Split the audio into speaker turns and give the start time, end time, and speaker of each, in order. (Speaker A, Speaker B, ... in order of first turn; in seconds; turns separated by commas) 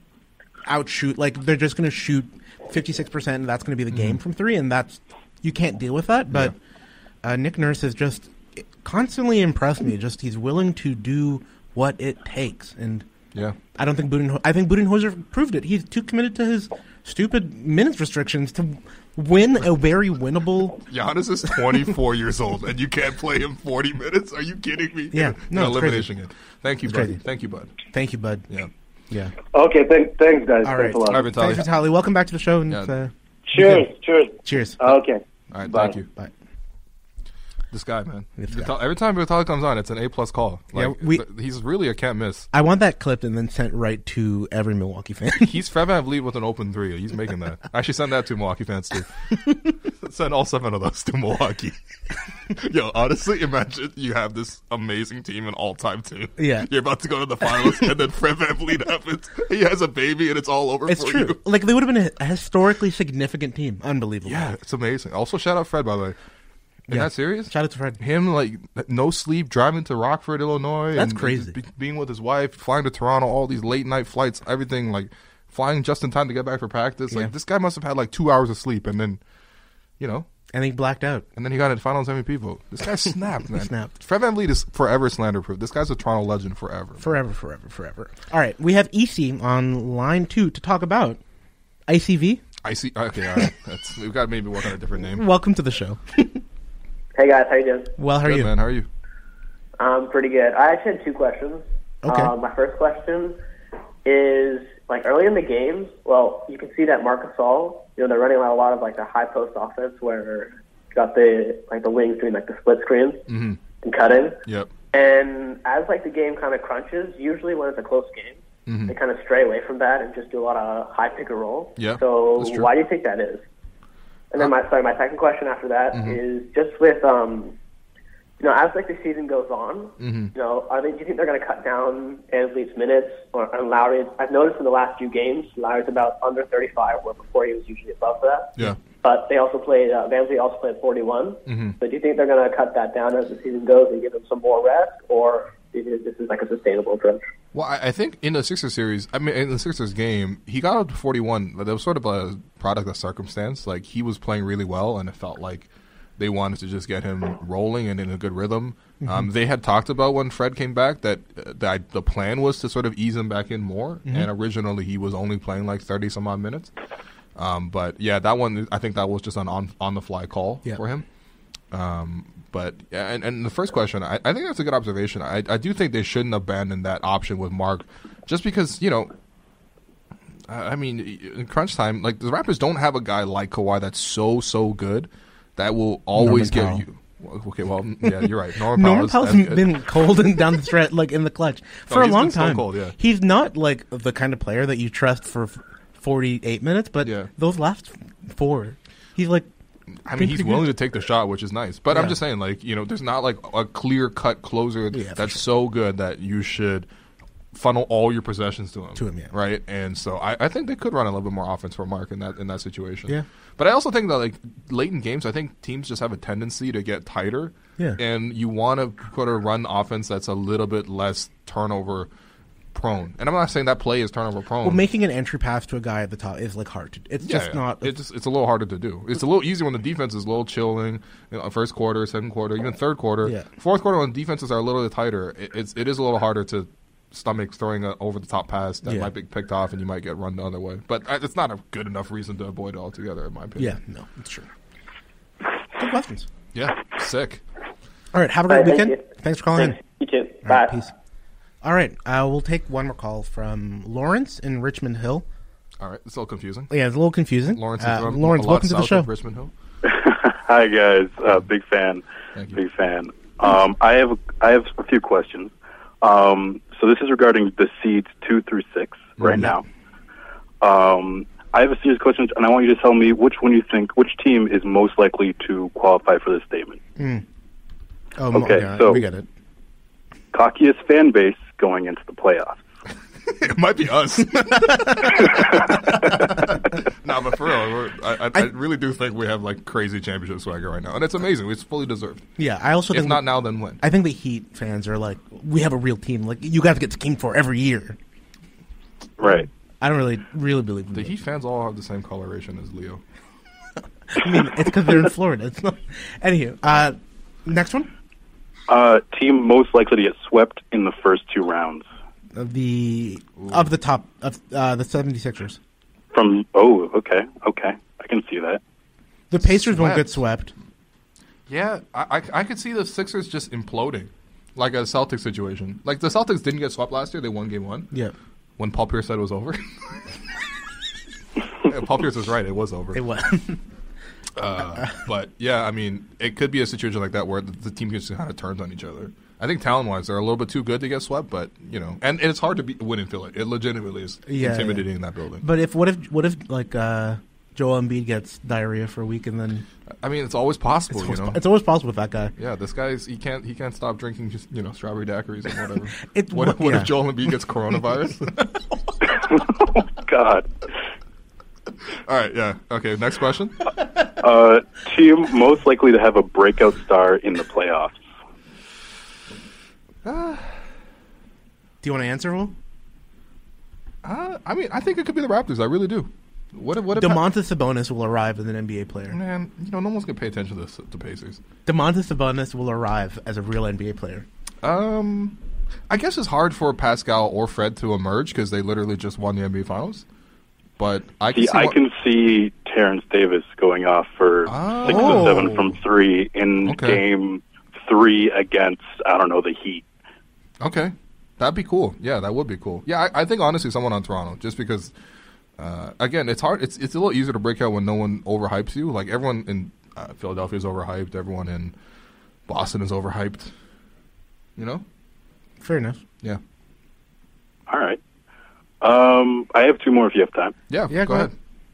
Speaker A: 0.7-6.5, Speaker B: 3.9-4.2, Speaker A: 7.2-13.1, Speaker A: 13.8-20.8, Speaker B: 20.9-27.8, Speaker A: 25.1-26.1, Speaker A: 26.8-27.2, Speaker A: 27.9-28.5, Speaker C: 29.5-31.3, Speaker A: 30.6-33.9, Speaker B: 31.1-31.7, Speaker C: 33.5-36.0, Speaker A: 34.4-34.8, Speaker B: 35.5-36.1, Speaker B: 37.7-42.5, Speaker A: 38.4-38.7, Speaker A: 40.8-41.2, Speaker A: 42.5-45.5, Speaker B: 45.4-49.1, Speaker B: 50.0-51.8, Speaker B: 52.5-61.4, Speaker A: 56.4-56.7, Speaker A: 57.4-57.8, Speaker A: 60.9-64.5, Speaker B: 64.2-66.2, Speaker A: 66.9-68.0, Speaker B: 66.9-79.2, Speaker A: 71.0-71.5, Speaker B: 80.0-80.3, Speaker A: 80.5-81.3, Speaker B: 81.4-87.1, Speaker A: 83.5-83.9, Speaker A: 87.0-91.2, Speaker A: 91.9-92.4, Speaker B: 92.6-95.3, Speaker A: 95.1-96.4, Speaker D: 97.2-97.9, Speaker A: 98.0-98.5, Speaker B: 98.2-98.9, Speaker D: 99.8-103.4, Speaker A: 102.0-102.3, Speaker D: 104.0-113.2, Speaker B: 113.3-113.6, Speaker D: 113.8-114.4, Speaker B: 114.5-114.7, Speaker D: 114.9-123.5, Speaker B: 118.7-119.0, Speaker B: 121.8-122.7, Speaker D: 124.3-127.6, Speaker B: 125.9-126.2, Speaker D: 128.4-147.2, Speaker B: 130.0-130.3, Speaker B: 141.5-141.8, Speaker B: 147.5-166.7, Speaker A: 159.0-159.3, Speaker B: 167.4-171.0, Speaker B: 171.7-179.1, Speaker B: 180.5-189.7, Speaker A: 186.2-186.8, Speaker A: 188.0-199.5, Speaker B: 191.9-192.9, Speaker B: 197.0-197.3, Speaker B: 200.1-206.9, Speaker A: 200.2-200.7, Speaker A: 201.9-202.2, Speaker A: 204.9-205.4, Speaker B: 207.5-222.1, Speaker A: 209.0-209.3, Speaker B: 222.7-224.8, Speaker A: 224.6-227.9, Speaker B: 227.2-243.8, Speaker A: 238.8-239.1, Speaker A: 243.6-244.5, Speaker A: 245.8-246.3, Speaker B: 246.5-247.4, Speaker A: 248.1-249.8, Speaker D: 248.5-249.0, Speaker D: 249.6-250.7, Speaker A: 250.4-250.9, Speaker A: 251.6-255.2, Speaker B: 255.8-256.7, Speaker A: 256.7-259.1, Speaker B: 257.5-259.5, Speaker E: 259.8-269.6, Speaker B: 262.4-262.6, Speaker B: 269.2-269.5, Speaker A: 269.3-269.6, Speaker E: 270.6-276.8, Speaker A: 277.0-277.2, Speaker A: 278.2-279.3, Speaker E: 278.3-279.0, Speaker E: 280.3-282.6, Speaker B: 283.3-292.2, Speaker A: 284.4-285.1, Speaker A: 292.4-293.3, Speaker B: 292.9-293.8, Speaker A: 293.8-298.0, Speaker E: 299.2-299.5, Speaker A: 299.8-301.1, Speaker B: 300.9-303.0, Speaker A: 304.1-307.9, Speaker E: 308.7-311.9, Speaker A: 312.4-315.6, Speaker B: 313.4-313.7, Speaker E: 316.1-318.6, Speaker A: 319.3-320.5, Speaker B: 319.4-320.2, Speaker B: 321.5-327.9, Speaker B: 328.6-329.6, Speaker B: 331.6-333.0, Speaker A: 332.9-333.6, Speaker B: 334.4-345.5, Speaker A: 344.3-344.9, Speaker A: 345.4-349.7, Speaker B: 350.0-351.4, Speaker A: 350.9-352.3, Speaker B: 352.4-358.4, Speaker A: 356.1-356.9, Speaker E: 360.0-360.5, Speaker B: 362.1-363.6, Speaker E: 364.2-368.0, Speaker B: 370.1-370.5, Speaker A: 371.8-372.5, Speaker B: 374.0-377.2, Speaker A: 376.9-379.2, Speaker B: 379.1-381.4, Speaker A: 381.7-384.3, Speaker B: 384.6-385.4, Speaker B: 385.9-390.1, Speaker B: 390.8-391.8, Speaker E: 391.3-399.8, Speaker B: 394.5-395.8, Speaker A: 394.9-395.5, Speaker B: 396.6-397.0, Speaker B: 400.6-404.9, Speaker B: 405.6-411.7, Speaker B: 412.5-413.5, Speaker B: 414.6-414.8, Speaker A: 415.6-416.0, Speaker E: 417.7-418.0, Speaker E: 418.8-420.5, Speaker B: 420.7-421.3, Speaker A: 420.9-421.3